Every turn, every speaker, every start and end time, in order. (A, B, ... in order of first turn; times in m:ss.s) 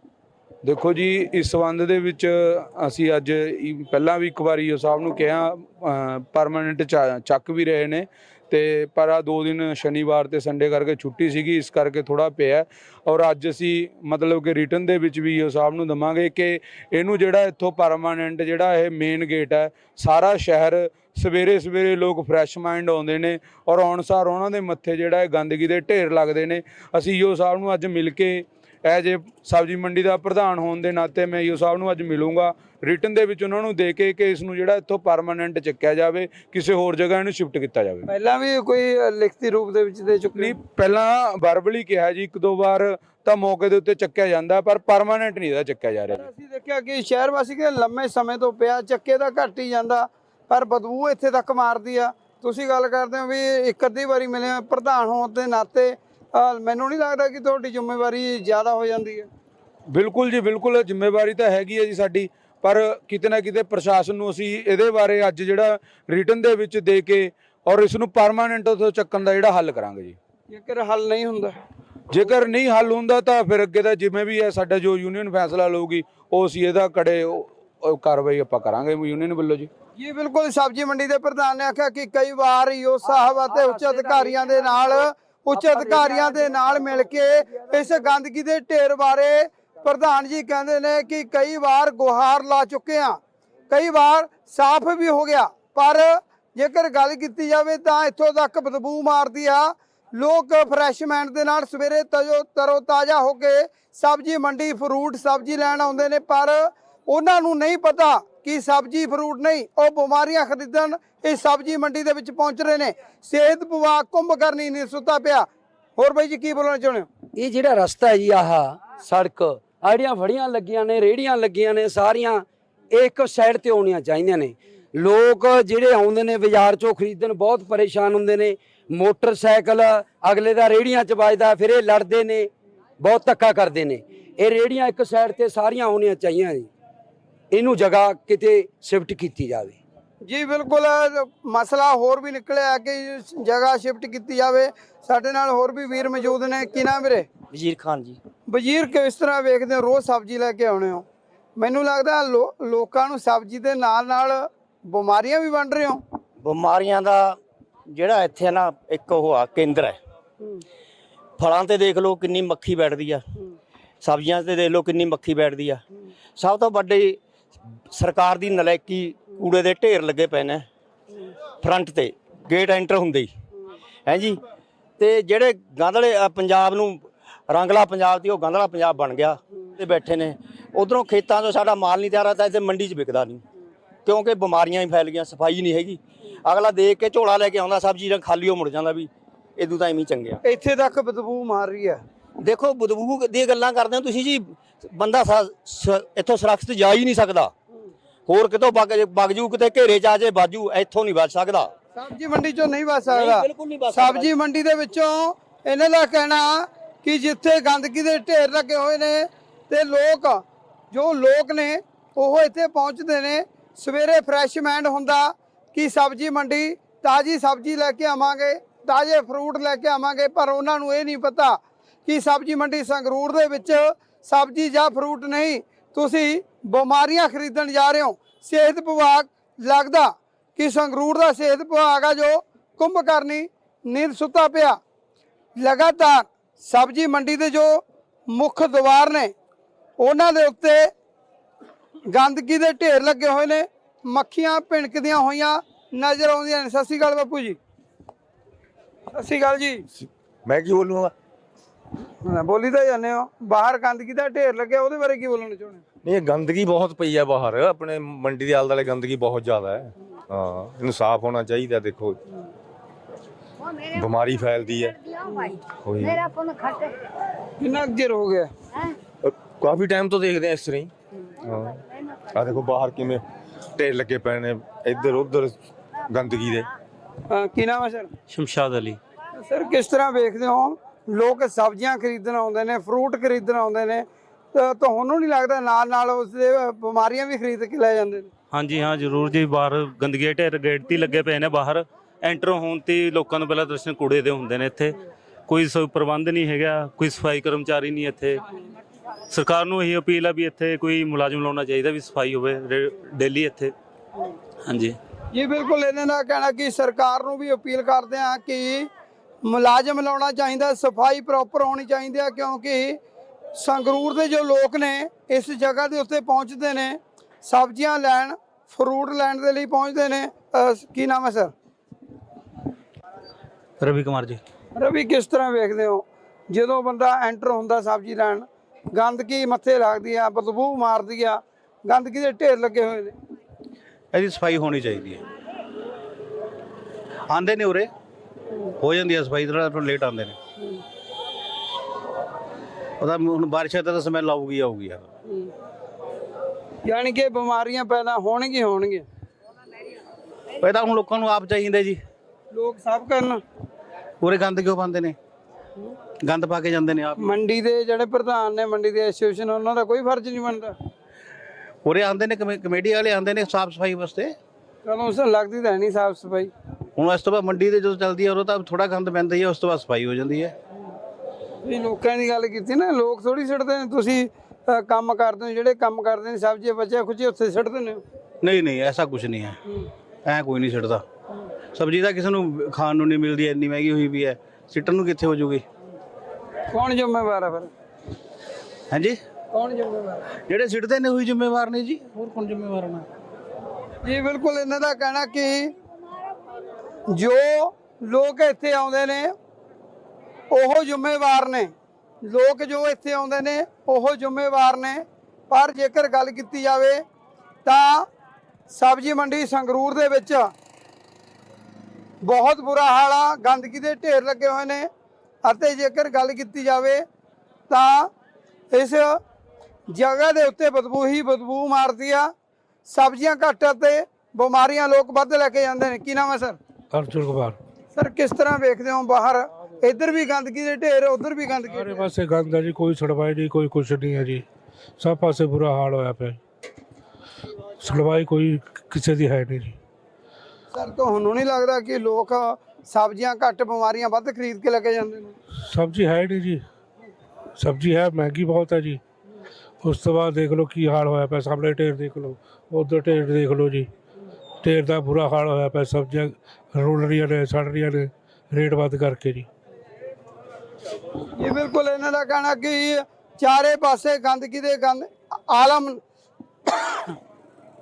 0:00.6-0:38.1 A
0:38.1-0:40.6 B
0:40.4-0:46.3 A
0:46.1-0:59.3 B
0:59.9-1:10.2 A
1:10.5-1:11.6 B
1:12.1-1:19.7 A
1:20.0-1:33.2 B
1:23.5-1:24.8 C
1:25.5-1:26.6 C
1:33.7-1:57.1 B
1:57.4-2:12.5 C
2:13.0-2:16.7 C
2:17.5-2:19.8 C
2:20.2-2:27.3 B
2:27.5-2:28.2 D
2:28.5-2:31.0 B
2:31.6-2:36.0 B
2:36.4-2:37.4 D
2:37.9-2:40.0 D
2:41.4-2:43.2 D
2:44.0-2:45.8 D
2:46.4-2:47.2 D
2:47.9-2:50.7 D
2:51.6-2:53.3 D
2:54.1-2:54.4 D
2:55.0-3:03.4 D
3:04.1-3:10.4 D
3:10.4-3:12.0 B
3:12.4-3:17.5 D
3:18.3-3:21.7 D
3:22.0-3:54.8 B
3:23.1-3:24.3 D
3:55.6-3:59.3 B
4:00.0-4:00.9 B
4:02.1-4:07.6 B
4:09.1-4:09.8 B
4:10.0-4:11.1 E
4:12.2-4:15.8 B
4:16.0-4:22.2 E
4:23.8-4:25.1 E
4:25.8-4:26.5 E
4:27.6-4:28.5 B
4:29.2-4:30.9 E
4:31.4-4:33.2 E
4:33.8-4:35.6 E
4:36.1-4:36.7 E
4:37.3-4:38.1 B
4:38.3-4:39.0 F
4:39.4-4:48.3 B
4:48.5-4:58.4 F
4:59.3-5:03.7 F
5:04.7-5:05.0 F
5:05.3-5:08.9 B
5:09.4-5:13.0 B
5:13.6-5:21.5 B
5:23.8-5:24.4 G
5:24.8-5:33.2 B
5:34.1-5:35.2 G
5:37.3-5:37.9 G
5:38.8-5:40.4 G
5:43.0-5:45.1 G
5:46.8-5:49.1 B
5:50.6-5:52.0 G
5:52.5-5:53.4 B
5:54.2-5:55.2 G
5:56.2-5:57.3 G
5:57.2-6:00.8 B
6:01.8-6:04.4 G
6:04.8-6:06.5 B
6:07.0-6:10.6 G
6:11.6-6:18.0 B
6:18.4-6:19.6 G
6:20.3-6:21.0 G
6:21.7-6:25.6 G
6:26.7-6:27.7 B
6:28.9-6:29.2 G
6:29.5-6:30.2 B
6:30.5-6:33.0 G
6:34.0-6:35.7 B
6:37.1-6:39.3 B
6:40.5-6:41.7 B
6:42.2-6:47.0 B
6:47.6-6:48.1 B
6:48.7-6:50.5 B
6:52.2-6:54.9 B
6:55.4-6:57.0 B
6:57.7-6:58.1 B
6:58.7-6:59.2 B
6:59.9-7:02.3 B
7:02.9-7:06.6 B
7:06.9-7:07.6 H
7:07.9-7:12.1 B
7:11.7-7:14.5 H
7:15.0-7:16.4 H
7:17.8-7:19.8 H
7:20.7-7:25.4 B
7:25.6-7:26.7 H
7:27.6-7:29.0 H
7:29.8-7:33.9 H
7:34.6-7:39.5 H
7:41.4-7:46.0 B